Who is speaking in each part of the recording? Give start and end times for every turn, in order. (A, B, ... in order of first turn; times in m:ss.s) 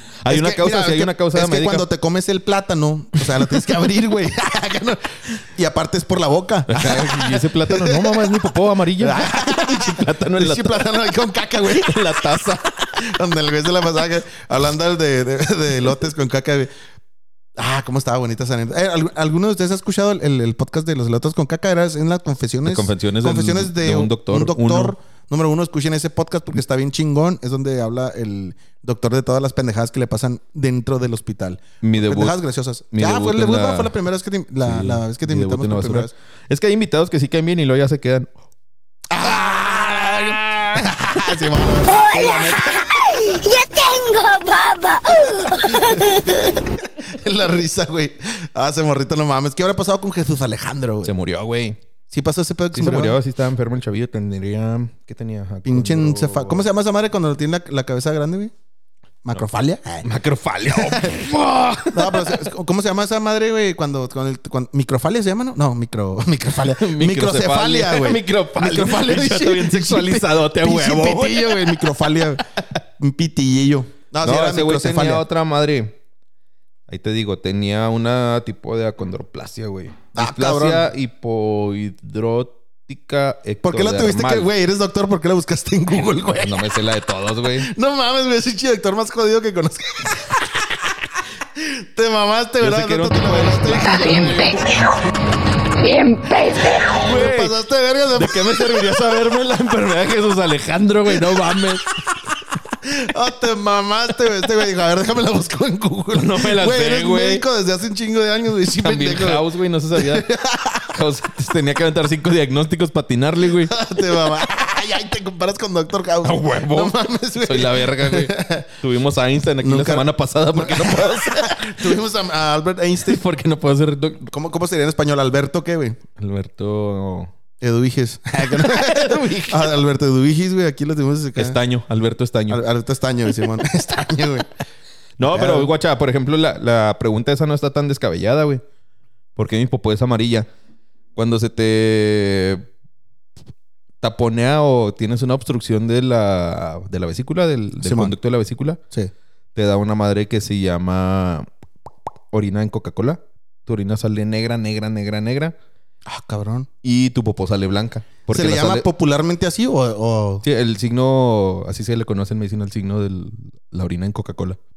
0:00.2-0:01.9 A
0:00.3-0:08.4 B
0:03.4-0:03.7 A
0:06.7-0:11.0 A
0:09.0-0:12.3 B
0:11.6-0:13.0 A
0:12.9-0:16.7 B
0:17.6-0:36.1 B
0:22.6-0:25.0 A
0:31.8-0:32.4 A
0:32.9-0:33.9 A
0:34.6-0:38.3 A
0:39.1-0:42.9 B
0:41.8-0:46.6 C
0:45.4-0:51.1 B
0:51.0-0:51.8 A
0:52.1-0:53.2 B
0:52.7-0:56.7 A
0:55.6-0:58.5 B
0:59.2-1:00.1 B
1:00.0-1:02.4 A
1:00.7-1:01.2 B
1:01.9-1:12.5 B
1:06.6-1:11.9 A
1:13.0-1:15.2 B
1:14.2-1:16.0 A
1:16.9-1:24.5 A
1:20.2-1:20.9 B
1:23.6-1:26.7 B
1:26.3-1:27.7 A
1:27.5-1:30.8 B
1:31.6-1:34.7 B
1:32.6-1:34.8 A
1:35.8-1:36.9 C
1:36.8-1:37.6 A
1:37.0-1:39.2 B
1:38.1-1:42.0 A
1:42.8-1:51.0 B
1:46.1-1:47.4 A
1:48.8-1:50.3 A
1:50.9-1:53.7 A
1:53.6-1:58.7 B
1:56.2-2:02.0 A
1:59.6-2:03.2 B
2:03.0-2:04.3 A
2:04.3-2:06.0 B
2:06.2-2:07.3 A
2:07.6-2:11.6 B
2:08.4-2:09.7 A
2:11.4-2:12.6 A
2:12.5-2:14.5 B
2:15.2-2:18.6 A
2:15.2-2:15.7 B
2:19.4-2:20.5 A
2:21.2-2:22.7 A
2:24.0-2:28.8 A
2:27.8-2:28.2 B
2:29.6-2:31.5 A
2:32.3-2:35.6 A
2:36.1-2:36.7 B
2:36.8-2:38.9 A
2:38.3-2:40.4 B
2:40.4-2:44.6 A